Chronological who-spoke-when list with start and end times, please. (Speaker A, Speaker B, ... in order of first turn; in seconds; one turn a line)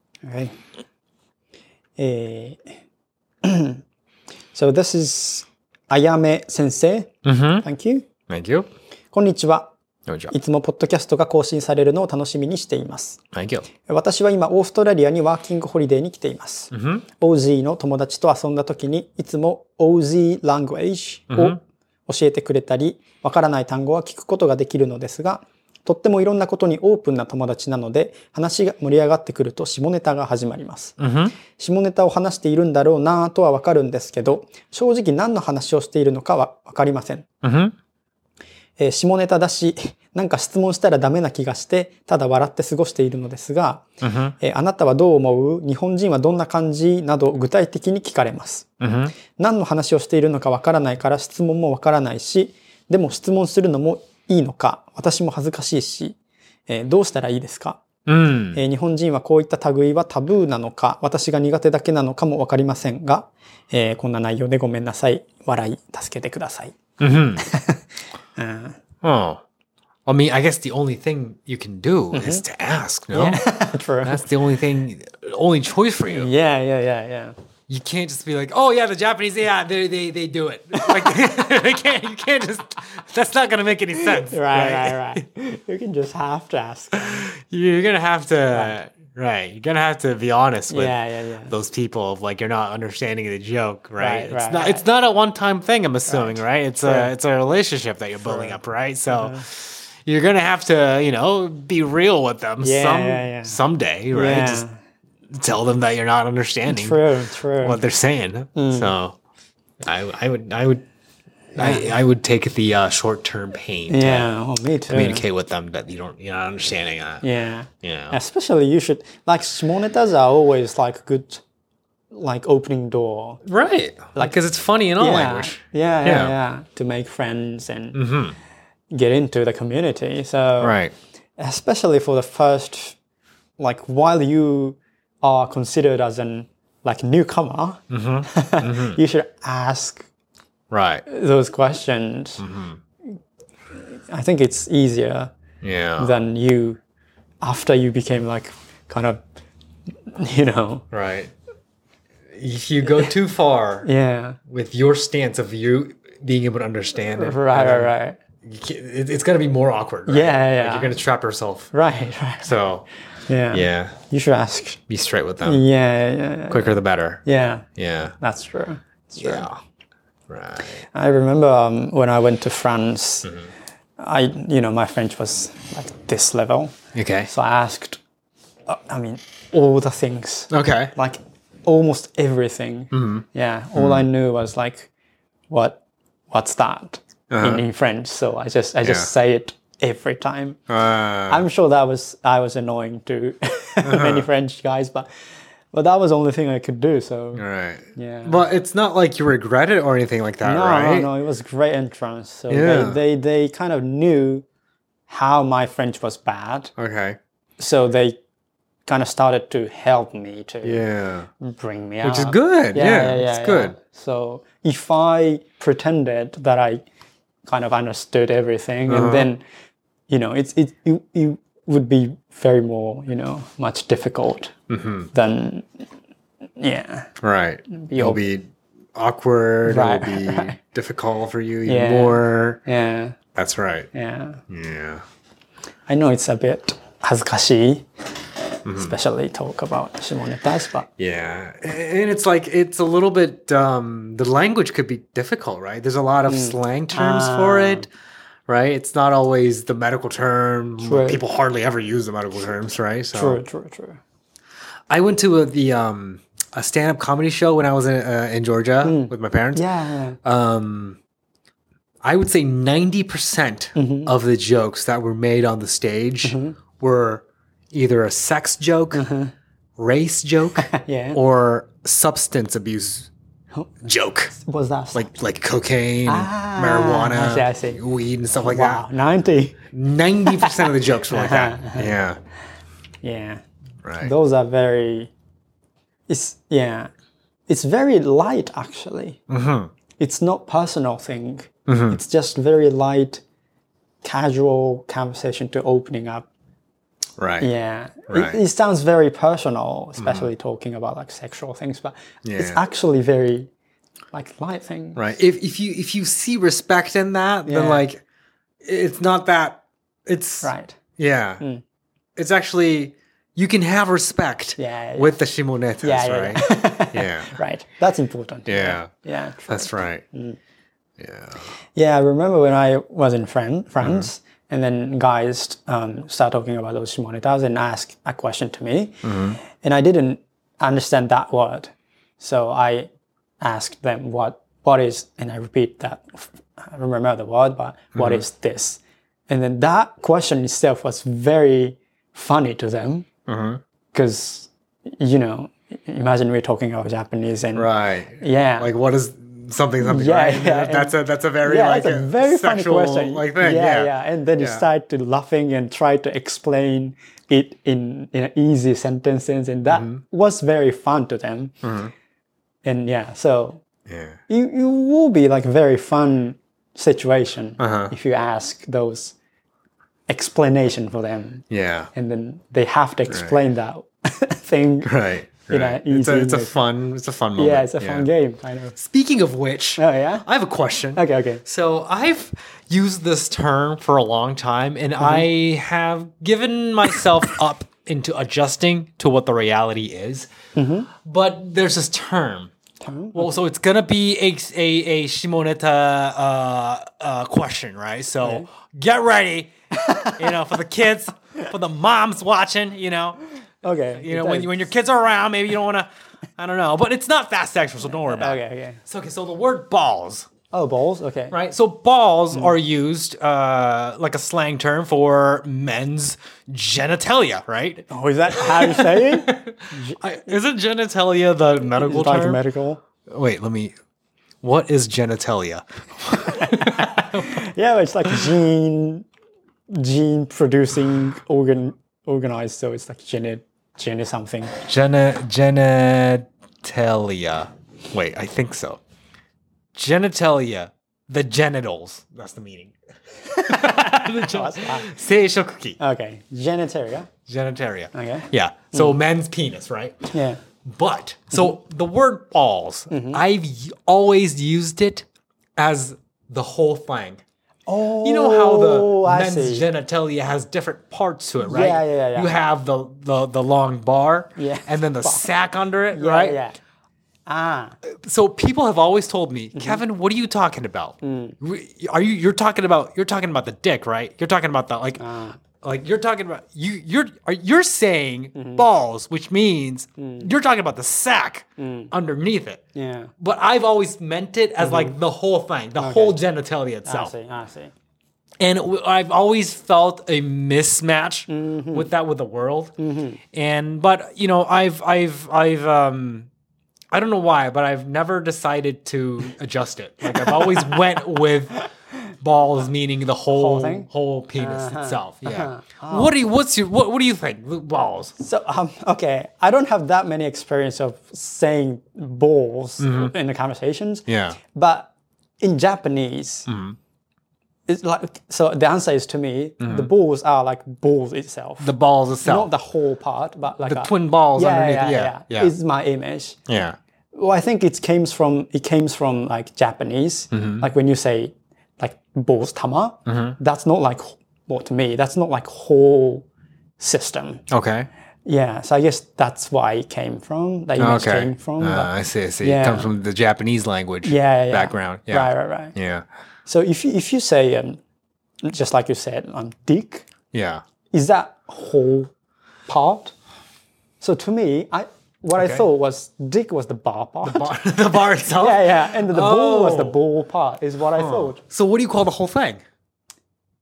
Speaker A: 0.2-0.5
Speaker A: 2.0-2.6
Speaker A: 3.4-3.8
Speaker A: 4.5-7.1
Speaker B: 7.2-7.7
Speaker A: 7.6-8.1
Speaker B: 8.3-8.7
Speaker A: 9.1-9.7
Speaker B: 10.1-10.3
Speaker A: 10.3-13.2
Speaker B: 13.3-13.7
Speaker A: 13.8-37.3
Speaker B: 16.7-17.1
Speaker B: 21.3-21.6
Speaker B: 31.0-31.4
Speaker B: 37.4-37.7
Speaker A: 38.8-43.8
Speaker B: 44.0-44.4
Speaker A: 44.4-48.7
Speaker B: 48.8-49.2
Speaker A: 49.3-56.1
Speaker A: 56.7-57.8
Speaker B: 58.0-58.6
Speaker A: 58.5-66.8
Speaker B: 67.0-67.5
Speaker A: 67.4-67.8
Speaker A: 68.4-68.8
Speaker B: 69.0-69.4
Speaker B: 70.0-73.4
Speaker A: 72.1-72.5
Speaker A: 73.1-74.4
Speaker B: 74.0-76.3
Speaker A: 76.1-77.3
Speaker B: 77.7-85.2
Speaker A: 80.7-81.4
Speaker A: 84.1-87.3
Speaker B: 86.9-104.7
Speaker A: 90.7-91.5
Speaker A: 94.0-94.8
Speaker A: 96.0-97.1
Speaker A: 98.2-99.4
Speaker A: 102.6-103.6
Speaker A: 104.1-104.7
Speaker B: 105.3-109.2
Speaker A: 106.7-107.8
Speaker A: 108.5-108.9
Speaker B: 109.8-110.8
Speaker B: 111.5-114.3
Speaker A: 111.5-112.0
Speaker A: 113.9-115.2
Speaker B: 114.9-117.3
Speaker A: 117.2-121.4
Speaker B: 117.8-118.2
Speaker A: 122.1-123.4
Speaker B: 123.4-126.3
Speaker A: 125.0-128.0
Speaker B: 127.9-128.4
Speaker A: 128.9-130.8
Speaker B: 130.6-130.9
Speaker A: 131.4-133.0
Speaker A: 133.6-140.0
Speaker B: 137.9-139.0
Speaker B: 140.7-141.1
Speaker A: 141.1-142.4
Speaker B: 142.4-142.8
Speaker A: 144.1-145.3
Speaker B: 145.6-146.2
Speaker A: 146.0-146.8
Speaker A: 147.4-149.2
Speaker A: 150.1-150.8
Speaker B: 150.9-151.3
Speaker B: 152.3-153.9
Speaker A: 153.8-154.4
Speaker B: 154.4-161.8
Speaker A: 157.1-158.2
Speaker A: 160.1-161.0
Speaker A: 161.7-162.5
Speaker B: 162.4-162.9
Speaker A: 163.3-164.8
Speaker B: 163.5-164.1
Speaker B: 164.9-165.7
Speaker A: 165.4-167.6
Speaker B: 166.5-167.2
Speaker B: 167.7-168.2
Speaker A: 168.2-169.5
Speaker B: 169.2-169.6
Speaker B: 170.3-170.9
Speaker A: 170.9-173.3
Speaker B: 173.2-173.5
Speaker A: 174.0-176.7
Speaker B: 176.9-177.3
Speaker A: 177.3-178.0
Speaker A: 178.7-184.9
Speaker B: 180.5-180.9
Speaker B: 182.9-184.1
Speaker A: 185.5-185.8
Speaker A: 186.3-190.6
Speaker B: 187.3-187.6
Speaker B: 188.8-189.1
Speaker B: 190.7-191.4
Speaker A: 191.3-195.1
Speaker B: 193.8-194.3
Speaker A: 195.7-197.4
Speaker B: 197.3-201.1
Speaker A: 197.9-198.4
Speaker A: 200.4-204.4
Speaker B: 202.5-203.0
Speaker A: 205.1-206.7
Speaker B: 206.8-207.2
Speaker A: 207.6-208.2
Speaker A: 208.8-210.8
Speaker B: 210.6-211.3
Speaker A: 211.4-216.8
Speaker B: 212.0-213.8
Speaker A: 217.5-219.4
Speaker B: 218.9-219.3
Speaker A: 220.1-224.5
Speaker B: 224.7-225.1
Speaker A: 225.1-225.7
Speaker A: 226.6-227.1
Speaker B: 227.2-232.6
Speaker A: 227.7-228.2
Speaker A: 229.7-230.6
Speaker A: 231.6-233.2
Speaker B: 233.3-233.9
Speaker A: 233.9-234.4
Speaker B: 234.5-235.0
Speaker A: 235.9-237.9
Speaker B: 238.7-238.9
Speaker A: 238.7-240.9
Speaker B: 241.0-247.9
Speaker A: 246.3-247.8
Speaker B: 248.5-253.4
Speaker A: 250.8-251.2
Speaker A: 253.1-254.0
Speaker B: 254.9-261.0
Speaker A: 258.8-260.2
Speaker B: 262.0-269.1
Speaker A: 263.8-264.1
Speaker A: 266.2-266.6
Speaker A: 268.9-269.3
Speaker B: 269.8-273.1
Speaker A: 270.6-271.2
Speaker B: 273.8-274.4
Speaker A: 274.3-275.1
Speaker B: 274.9-278.9
Speaker A: 276.1-277.8
Speaker A: 278.4-279.6
Speaker B: 279.6-282.2
Speaker A: 280.2-281.9
Speaker A: 283.0-283.4
Speaker B: 283.8-284.1
Speaker A: 284.0-285.1
Speaker A: 286.1-286.9
Speaker A: 287.5-289.2
Speaker B: 289.3-289.7
Speaker A: 290.0-293.2
Speaker B: 291.6-292.0
Speaker A: 294.0-296.3
Speaker B: 297.2-297.5
Speaker A: 297.4-303.5
Speaker B: 298.1-298.4
Speaker B: 300.0-300.3
Speaker B: 302.2-302.6
Speaker A: 304.1-305.0
Speaker B: 304.9-308.0
Speaker A: 307.4-307.9
Speaker B: 308.6-311.4
Speaker A: 310.4-310.8
Speaker B: 312.1-317.4
Speaker A: 314.6-315.2
Speaker A: 315.8-320.4
Speaker B: 318.4-320.0
Speaker B: 321.0-321.5
Speaker A: 321.7-329.0
Speaker B: 323.8-324.1
Speaker B: 329.0-329.4
Speaker A: 329.5-332.9
Speaker A: 333.4-343.1
Speaker B: 337.9-338.2
Speaker B: 343.3-343.6
Speaker A: 343.9-347.7
Speaker B: 347.5-354.6
Speaker A: 348.2-348.7
Speaker A: 349.8-361.5
Speaker B: 359.7-360.0
Speaker B: 361.6-361.9
Speaker A: 362.6-363.6
Speaker B: 363.9-364.2
Speaker A: 364.3-369.1
Speaker B: 367.6-367.9
Speaker A: 370.1-371.4
Speaker B: 371.5-371.9
Speaker A: 371.9-374.9
Speaker B: 373.1-373.4
Speaker B: 374.8-378.1
Speaker A: 375.5-376.6
Speaker A: 377.4-378.7
Speaker B: 378.7-390.3
Speaker A: 379.8-380.2
Speaker A: 380.9-381.4
Speaker A: 385.0-385.3
Speaker A: 390.6-390.9
Speaker B: 390.9-392.5
Speaker A: 392.8-393.4
Speaker B: 393.1-399.5
Speaker A: 398.2-398.5
Speaker A: 399.7-400.5
Speaker B: 400.1-403.2
Speaker A: 403.6-404.7
Speaker B: 403.9-410.3
Speaker A: 407.8-408.8
Speaker A: 410.5-411.4
Speaker B: 411.3-422.4
Speaker A: 412.3-412.6
Speaker A: 417.9-420.4
Speaker A: 421.6-422.8
Speaker B: 423.0-423.7
Speaker B: 424.4-427.4
Speaker A: 426.1-429.1
Speaker A: 429.7-434.5
Speaker B: 434.6-438.8
Speaker B: 439.7-445.8
Speaker A: 443.4-444.9
Speaker A: 445.8-447.1
Speaker B: 447.2-450.1
Speaker A: 447.9-449.0
Speaker A: 450.1-450.4
Speaker B: 450.6-457.2
Speaker A: 452.9-453.2
Speaker A: 457.7-459.7
Speaker B: 457.9-466.4
Speaker A: 461.4-462.3
Speaker A: 464.4-465.3
Speaker A: 465.9-466.6
Speaker A: 467.3-467.7
Speaker B: 467.9-482.6
Speaker A: 469.5-469.8
Speaker A: 471.0-471.4
Speaker A: 475.0-475.4
Speaker A: 478.3-478.7
Speaker A: 480.0-480.3
Speaker A: 481.6-481.9
Speaker A: 482.7-483.1
Speaker B: 483.2-487.1
Speaker A: 484.6-485.0
Speaker A: 485.8-486.2
Speaker A: 486.8-487.7
Speaker B: 488.4-492.7
Speaker A: 491.3-491.9
Speaker A: 492.8-493.2
Speaker B: 493.3-496.3
Speaker B: 496.9-508.2
Speaker A: 500.0-501.0
Speaker A: 503.3-506.2
Speaker A: 508.2-516.5
Speaker B: 512.8-513.1
Speaker B: 514.1-514.4
Speaker B: 516.5-516.8
Speaker A: 517.7-521.7
Speaker B: 519.6-519.9
Speaker B: 521.6-522.5
Speaker A: 522.2-526.4
Speaker B: 523.6-525.5
Speaker B: 526.5-526.8
Speaker A: 527.1-536.2
Speaker B: 530.3-530.7
Speaker B: 533.0-533.4
Speaker A: 536.8-537.4
Speaker B: 537.5-537.9
Speaker A: 538.2-542.9
Speaker B: 540.8-546.1
Speaker A: 544.0-545.7
Speaker A: 546.5-547.8
Speaker A: 548.4-550.1
Speaker B: 550.3-550.6
Speaker A: 550.9-552.1
Speaker A: 552.7-553.1
Speaker A: 554.0-561.4
Speaker B: 555.3-555.7
Speaker B: 557.2-560.0
Speaker B: 560.9-562.6